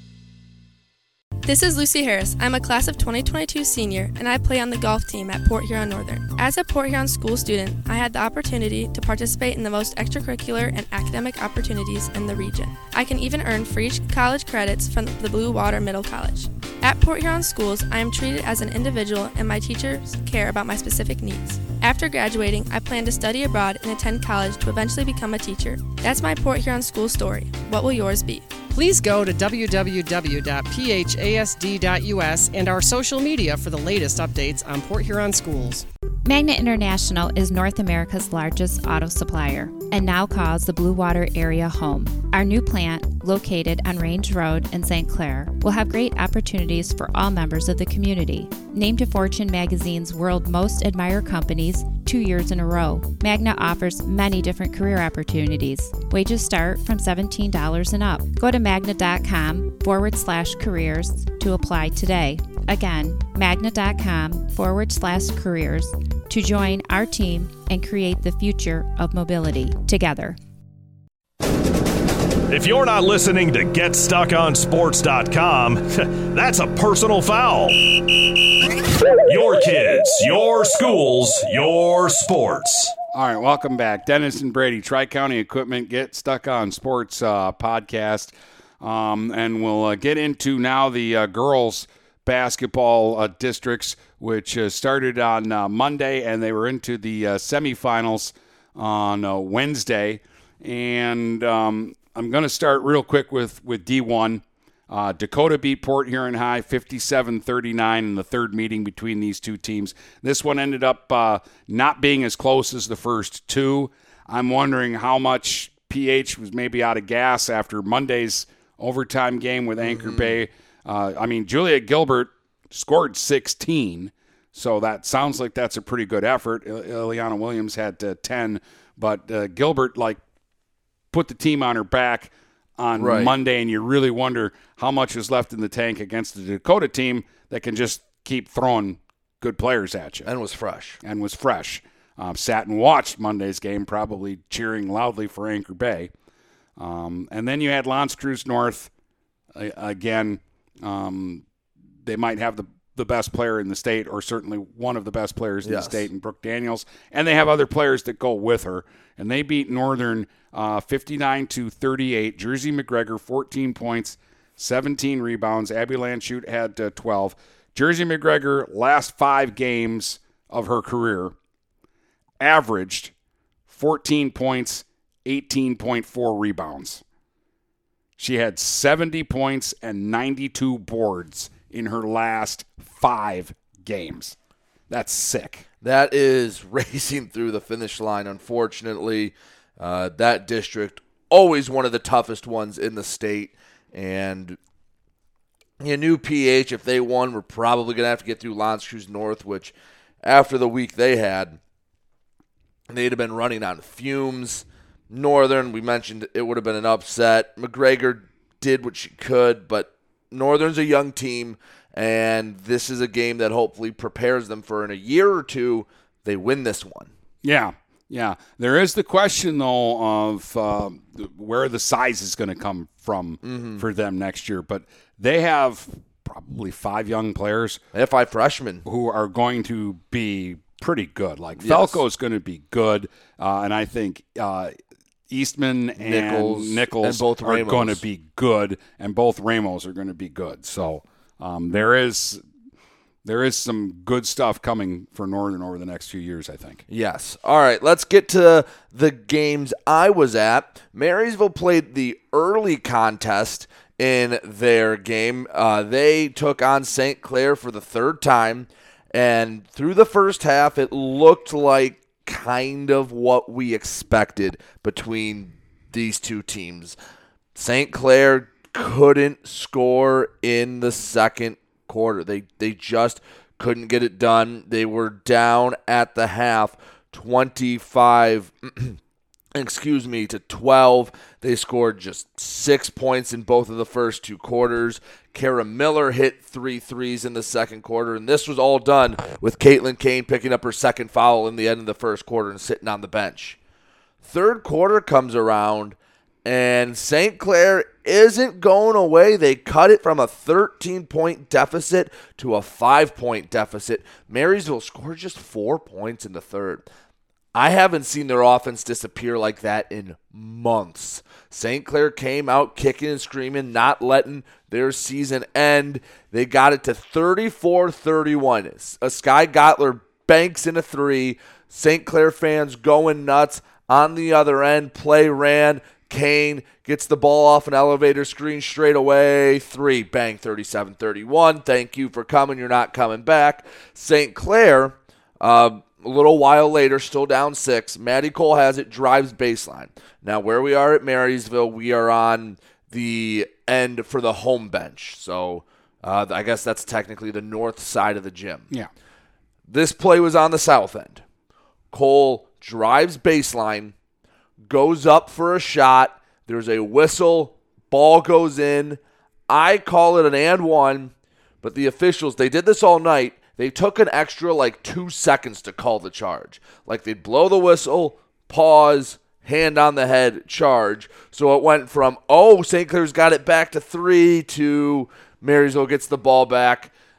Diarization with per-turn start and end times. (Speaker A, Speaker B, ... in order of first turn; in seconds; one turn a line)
Speaker A: 1.4-28.5
Speaker B: 28.7-35.9
Speaker C: 36.2-70.4
Speaker D: 72.5-77.9
Speaker D: 79.3-82.9
Speaker E: 83.1-130.2
Speaker F: 119.8-120.3
Speaker E: 131.1-140.3
Speaker F: 133.0-133.3
Speaker F: 140.3-141.0
Speaker E: 141.0-146.1
Speaker E: 146.8-148.9
Speaker E: 149.5-151.4
Speaker E: 152.0-171.3
Speaker F: 155.6-156.1
Speaker E: 172.4-173.1
Speaker E: 173.7-177.0
Speaker E: 178.2-184.4
Speaker E: 184.9-185.7
Speaker F: 185.8-194.6
Speaker F: 195.8-201.6
Speaker F: 202.9-217.1
Speaker E: 217.4-227.8
Speaker F: 223.4-223.8
Speaker F: 227.9-228.9
Speaker E: 228.8-234.8
Speaker F: 231.6-232.0
Speaker E: 235.3-242.4
Speaker F: 236.0-238.0
Speaker E: 243.2-246.8
Speaker F: 246.9-267.0
Speaker F: 267.6-279.0
Speaker F: 279.6-293.6
Speaker F: 294.2-306.9
Speaker F: 307.6-348.7
Speaker F: 349.7-351.2
Speaker F: 351.9-353.9
Speaker F: 354.7-376.9